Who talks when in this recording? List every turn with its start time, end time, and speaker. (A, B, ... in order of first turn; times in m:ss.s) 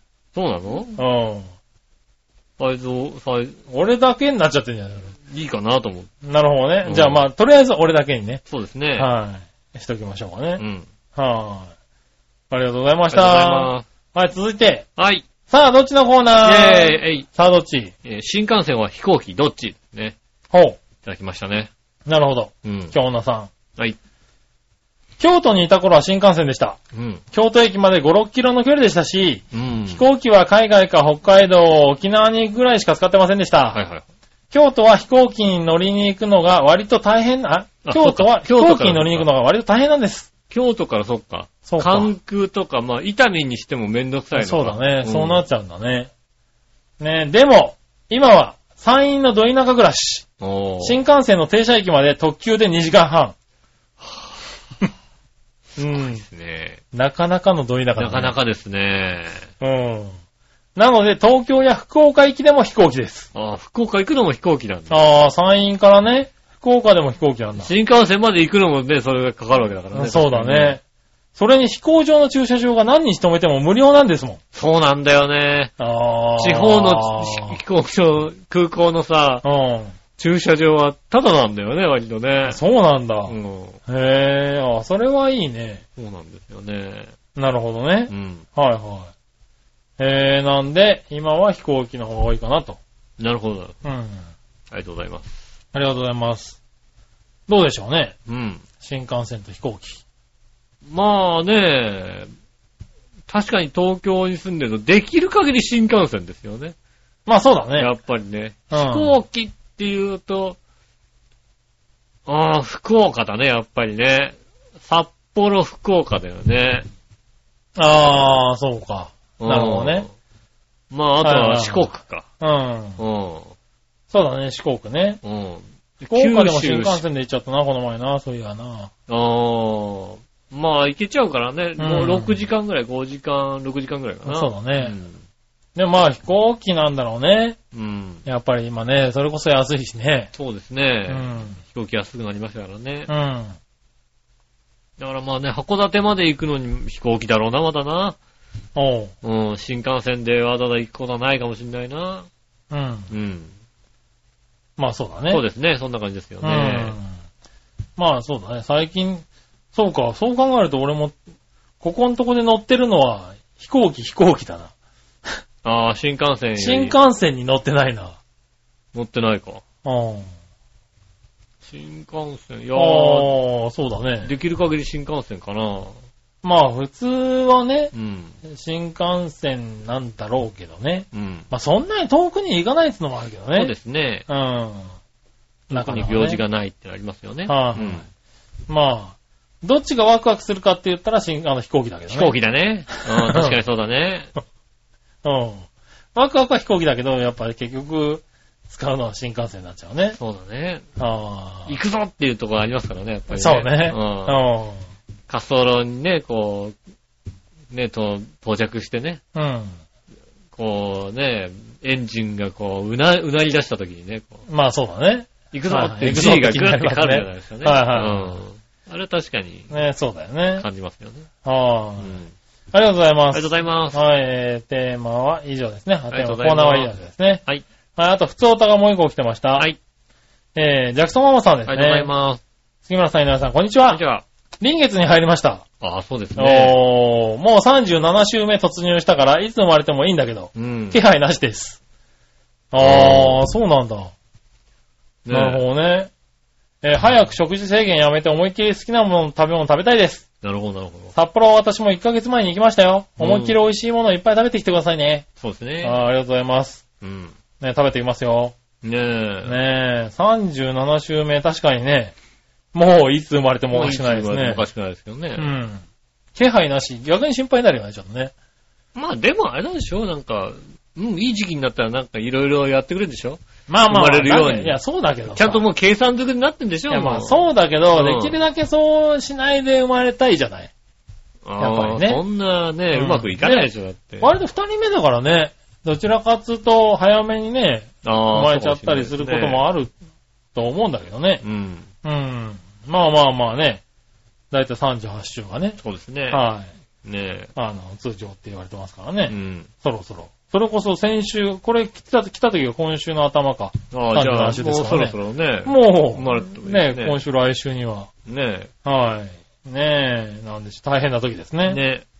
0:00.3-0:01.0 A
0:01.0-0:01.5 B
0:02.6-0:03.6 A
0:03.7-0:05.2 B
0:05.2-0:06.1 A
0:06.2-0:08.4 B
0:06.8-0:07.2 A
0:08.5-0:09.1 A
0:09.0-0:10.6 B
0:10.6-0:10.9 A
0:11.1-0:11.7 B
0:12.5-0:14.9 B
0:13.1-0:13.8 A
0:15.0-0:15.3 A
0:15.5-0:17.9 B
0:16.4-0:17.3 A
0:18.0-0:20.2 A
0:20.5-0:20.8 B
0:21.0-0:21.7 A
0:22.0-0:23.5 B
0:22.6-0:22.9 A
0:25.2-0:26.8 B
0:26.9-0:27.2 A
0:27.3-0:33.8 B
0:29.5-0:30.0 A
0:33.7-0:34.0 A
0:34.5-0:40.3 B
0:37.8-0:39.3 A
0:40.5-0:45.4 A
0:41.6-0:42.1 B
0:44.3-0:46.1 B
0:47.0-0:50.3 B
0:50.4-0:51.0 A
0:50.8-0:53.3 B
0:54.0-0:54.5 A
0:55.8-0:56.2 B
0:55.9-0:56.8 A
0:56.9-0:58.3 B
0:58.0-0:59.5 A
0:59.6-1:00.2 B
1:00.8-1:03.3 B
1:03.3-1:05.0 A
1:04.9-1:07.7 B
1:07.6-1:10.8 A
1:09.9-1:10.8 B
1:11.3-1:14.4 B
1:14.5-1:15.7 A
1:15.8-1:17.6 B
1:16.4-1:19.4 A
1:19.4-1:20.0 B
1:20.2-1:22.6 A
1:22.5-1:23.3 B
1:23.3-1:23.8 A
1:23.9-1:25.8 B
1:26.0-1:27.1 A
1:27.4-1:29.1 B
1:28.1-1:28.4 A
1:30.0-1:32.8 B
1:33.2-1:33.8 A
1:33.8-1:34.3 B
1:34.7-1:35.3 A
1:35.7-1:36.6 B
1:37.5-1:38.2 B
1:38.3-1:38.6 A
1:38.8-1:40.0 B
1:40.8-1:42.3 A
1:43.3-1:46.7 A
1:47.3-1:47.9 B
1:47.8-1:50.6 A
1:48.7-1:49.1 B
1:52.2-1:56.9 A
1:57.8-2:00.1 B
1:59.4-2:00.1 A
2:00.9-2:02.2 A
2:01.2-2:03.0 B
2:03.0-2:03.5 A
2:04.1-2:05.2 B
2:05.2-2:07.0 A
2:06.1-2:08.9 B
2:09.1-2:15.2 A
2:11.8-2:12.4 B
2:14.2-2:15.0 B
2:15.8-2:17.6 B
2:17.7-2:18.2 A
2:18.2-2:20.3 B
2:20.3-2:23.1 A
2:21.1-2:21.6 B
2:23.1-2:23.6 B
2:25.0-2:28.2 A
2:28.7-2:29.1 B
2:29.2-2:32.3 A
2:32.7-2:33.1 B
2:33.1-2:33.5 A
2:34.8-2:35.4 B
2:35.3-2:37.0 A
2:36.4-2:37.2 B
2:38.0-2:41.2 B
2:41.8-2:44.7 B
2:45.6-2:47.0 A
2:46.6-2:48.2 B
2:48.9-2:49.6 A
2:49.8-2:50.3 B
2:51.6-2:53.3 A
2:52.7-2:54.3 B
2:54.2-2:56.0 A
2:56.4-2:57.9 B
2:57.9-2:58.3 A
2:58.4-3:03.7 B
3:01.1-3:01.5 A
3:03.5-3:04.2 A
3:04.3-3:04.9 B
3:05.7-3:08.0 A
3:05.7-3:06.4 B
3:07.5-3:08.0 B
3:08.7-3:12.3 B
3:12.1-3:14.3 A
3:12.9-3:13.6 B
3:15.2-3:20.2 B
3:20.2-3:20.9 A
3:21.0-3:21.7 B
3:21.7-3:24.4 A
3:23.3-3:24.8 B
3:25.3-3:26.8 A
3:27.7-3:29.2 A
3:29.3-3:29.8 B
3:30.5-3:34.4 A
3:34.5-3:38.4 B
3:35.5-3:39.7 A
3:39.7-3:40.7 B
3:40.6-3:41.3 A
3:41.4-3:42.2 B
3:42.0-3:42.3 A
3:42.7-3:47.4 B
3:43.3-3:44.0 A
3:46.1-3:46.9 A
3:48.0-3:49.7 B
3:50.5-3:52.1 B
3:51.6-3:52.4 A
3:52.8-3:54.0 B
3:53.9-3:54.2 A
3:54.6-3:55.6 B
3:55.8-3:56.8 A
3:56.3-4:01.8 B
4:00.5-4:01.0 A
4:02.7-4:04.1 B
4:02.8-4:03.4 A
4:05.2-4:05.6 A
4:05.3-4:06.1 B
4:06.8-4:10.2 B
4:10.4-4:11.1 A
4:11.1-4:15.2 B
4:13.2-4:13.6 A
4:15.4-4:16.0 A
4:15.8-4:16.8 B
4:17.0-4:17.3 A
4:17.6-4:18.5 B
4:18.8-4:19.6 A
4:19.4-4:22.1 B
4:22.7-4:24.6 B
4:23.7-4:25.5 A
4:25.4-4:25.8 B
4:26.3-4:28.3 B
4:28.9-4:34.8 A
4:33.7-4:35.6 B
4:35.3-4:38.4 A
4:36.9-4:40.7 B
4:41.4-4:44.3 A
4:41.6-4:42.2 B
4:42.9-4:49.9 B
4:48.0-4:49.6 A
4:50.5-4:51.4 B
4:51.4-4:51.9 A
4:52.0-4:53.8 B
4:54.5-4:56.7 B
4:55.8-4:56.4 A
4:57.0-4:57.5 A
4:57.5-5:08.1 B
4:59.3-4:59.7 A
5:03.9-5:07.2 A
5:08.2-5:08.7 A
5:08.8-5:11.8 B
5:11.6-5:12.0 A